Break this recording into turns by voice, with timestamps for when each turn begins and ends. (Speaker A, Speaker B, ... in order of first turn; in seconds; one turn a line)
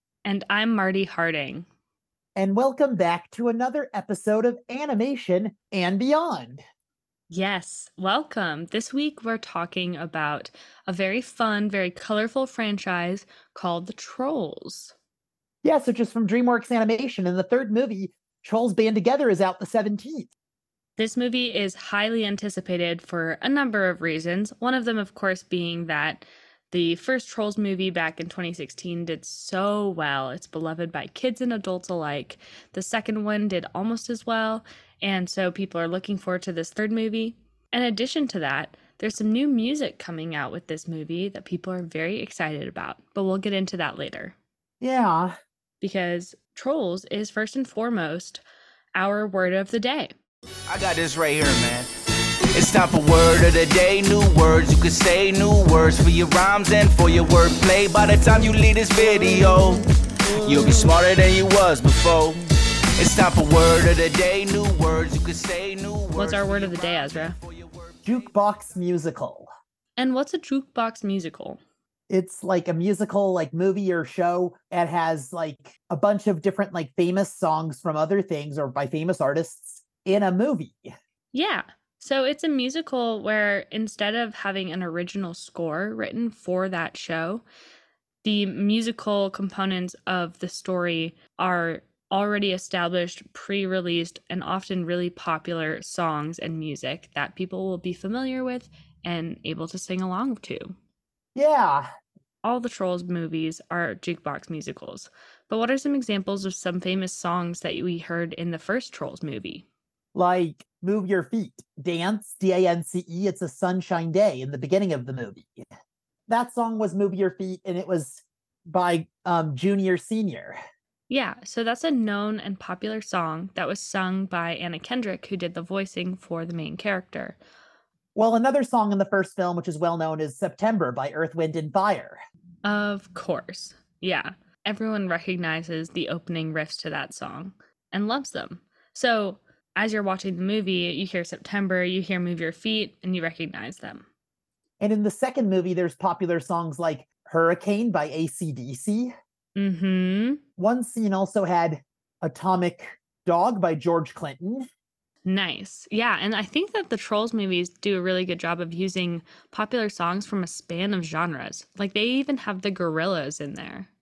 Speaker A: 0.2-1.7
Speaker B: 2.4-6.6
Speaker A: 7.3-14.9
Speaker B: 15.6-20.3
Speaker A: 21.0-44.4
Speaker B: 44.8-45.4
Speaker A: 45.8-48.4
Speaker A: 49.0-50.1
Speaker C: 50.7-51.9
Speaker C: 52.5-62.4
Speaker C: 63.0-68.0
Speaker A: 66.2-67.4
Speaker B: 68.0-69.5
Speaker A: 70.0-71.6
Speaker B: 72.1-80.9
Speaker A: 81.3-87.4
Speaker A: 88.2-100.8
Speaker B: 101.3-101.9
Speaker A: 102.4-109.7
Speaker B: 110.2-115.7
Speaker B: 116.3-120.6
Speaker A: 121.1-127.4
Speaker B: 128.2-132.2
Speaker A: 132.7-144.0
Speaker B: 144.8-149.1
Speaker A: 149.6-150.4
Speaker B: 150.6-154.7
Speaker A: 155.2-163.9